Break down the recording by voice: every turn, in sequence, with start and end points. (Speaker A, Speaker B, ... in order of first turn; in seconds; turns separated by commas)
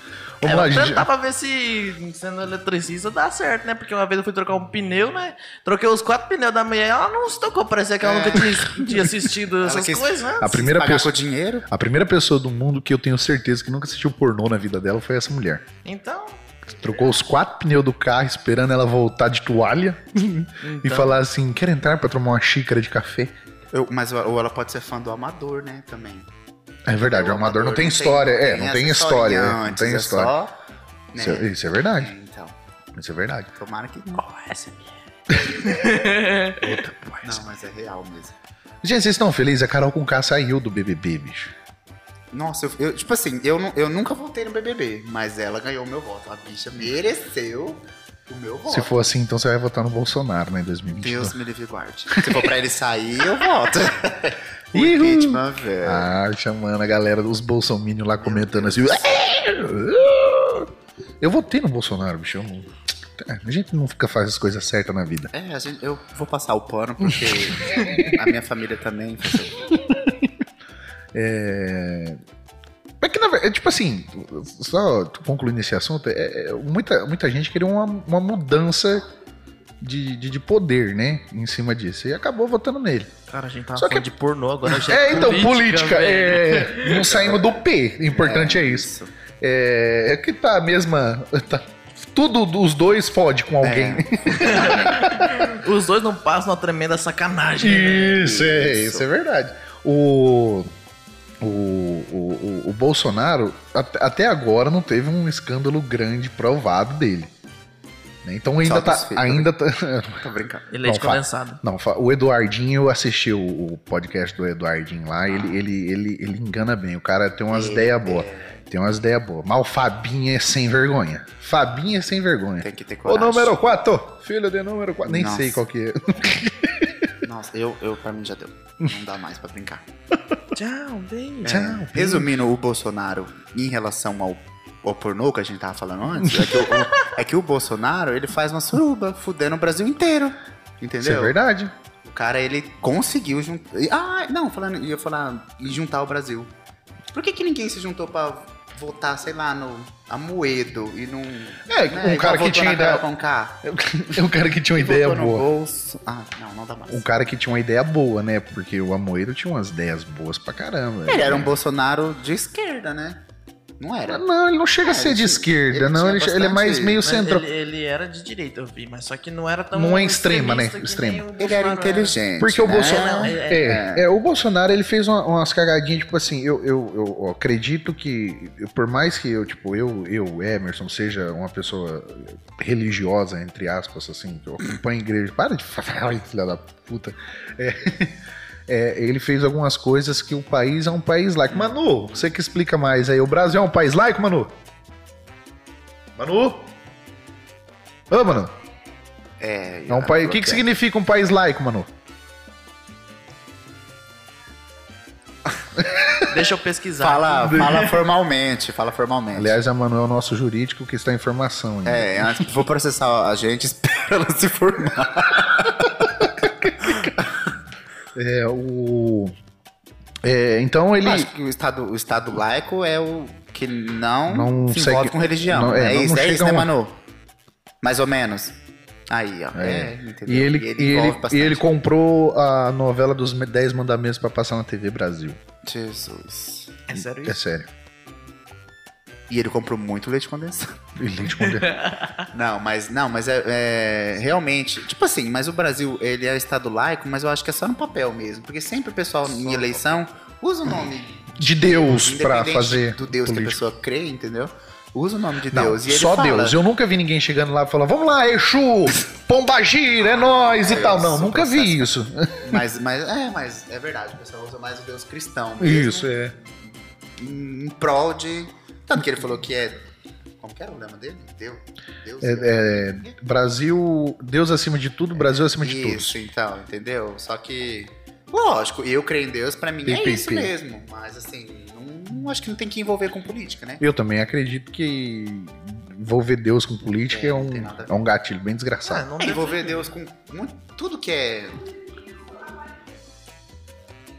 Speaker A: 0.4-1.1, Speaker B: 0.4-10.7, Speaker C: 8.0-9.1, Speaker C: 9.6-11.7, Speaker A: 10.4-15.6, Speaker B: 15.8-16.4, Speaker A: 16.8-23.3, Speaker B: 20.6-21.1, Speaker C: 23.7-26.3, Speaker A: 26.9-30.3, Speaker C: 27.0-30.5, Speaker C: 31.1-32.6, Speaker A: 31.1-32.1, Speaker A: 32.9-33.5, Speaker C: 33.5-34.3, Speaker A: 35.3-37.5, Speaker B: 35.6-36.6, Speaker C: 37.2-38.3, Speaker A: 38.8-41.5, Speaker C: 42.3-48.9, Speaker A: 48.7-51.4, Speaker C: 50.9-56.1, Speaker A: 54.7-65.3, Speaker C: 58.2-59.0, Speaker C: 65.3-69.7, Speaker A: 67.1-68.2, Speaker A: 69.7-70.3, Speaker A: 71.1-72.2, Speaker A: 73.0-79.0, Speaker A: 79.8-83.1, Speaker B: 83.3-87.1, Speaker A: 83.8-84.1, Speaker A: 84.7-88.9, Speaker C: 87.0-87.5, Speaker C: 88.1-89.1, Speaker A: 89.4-95.5, Speaker C: 93.6-95.2, Speaker B: 94.4-98.3, Speaker A: 97.6-100.7, Speaker C: 98.0-99.0, Speaker A: 101.4-107.3, Speaker A: 108.2-110.2, Speaker C: 108.6-109.5, Speaker C: 110.2-110.7, Speaker B: 110.7-111.6, Speaker A: 110.8-127.1, Speaker C: 115.3-115.5, Speaker C: 117.5-118.6, Speaker C: 122.6-123.5, Speaker C: 125.0-125.6, Speaker C: 127.2-129.9, Speaker B: 130.5-131.6, Speaker C: 131.4-141.3, Speaker A: 131.4-132.4, Speaker A: 136.2-136.8, Speaker A: 141.0-141.7, Speaker C: 142.0-146.5, Speaker C: 147.1-153.6, Speaker A: 151.7-153.1, Speaker A: 153.6-155.4, Speaker C: 154.7-157.0, Speaker A: 156.9-161.5, Speaker C: 161.1-163.2, Speaker C: 163.8-164.2, Speaker A: 164.1-167.4, Speaker C: 164.8-167.0, Speaker B: 167.0-173.7, Speaker A: 169.7-171.3, Speaker C: 171.4-174.1, Speaker A: 172.4-194.6, Speaker A: 196.2-196.7, Speaker A: 198.1-198.5, Speaker C: 199.4-200.6, Speaker A: 199.9-201.9, Speaker A: 205.8-206.1, Speaker B: 206.2-207.9, Speaker C: 207.0-209.6, Speaker A: 207.5-207.9, Speaker A: 209.3-212.5, Speaker C: 211.8-216.3, Speaker A: 216.3-217.2, Speaker A: 218.1-219.3, Speaker A: 220.2-221.3, Speaker C: 221.0-226.9, Speaker A: 224.3-226.7, Speaker C: 227.8-231.7, Speaker A: 229.5-235.4, Speaker C: 235.6-236.8, Speaker B: 236.9-237.4, Speaker A: 237.1-237.7, Speaker C: 239.3-240.8, Speaker A: 240.9-241.9, Speaker B: 241.4-242.3, Speaker C: 242.3-256.6, Speaker A: 251.3-253.6, Speaker A: 255.5-262.6, Speaker C: 260.5-266.1, Speaker A: 265.6-266.3, Speaker C: 267.2-269.9, Speaker C: 270.4-273.1, Speaker A: 272.2-276.2, Speaker C: 275.1-283.8, Speaker A: 279.8-280.5, Speaker A: 283.8-289.1, Speaker C: 287.1-288.0, Speaker B: 288.9-289.9, Speaker C: 289.2-291.7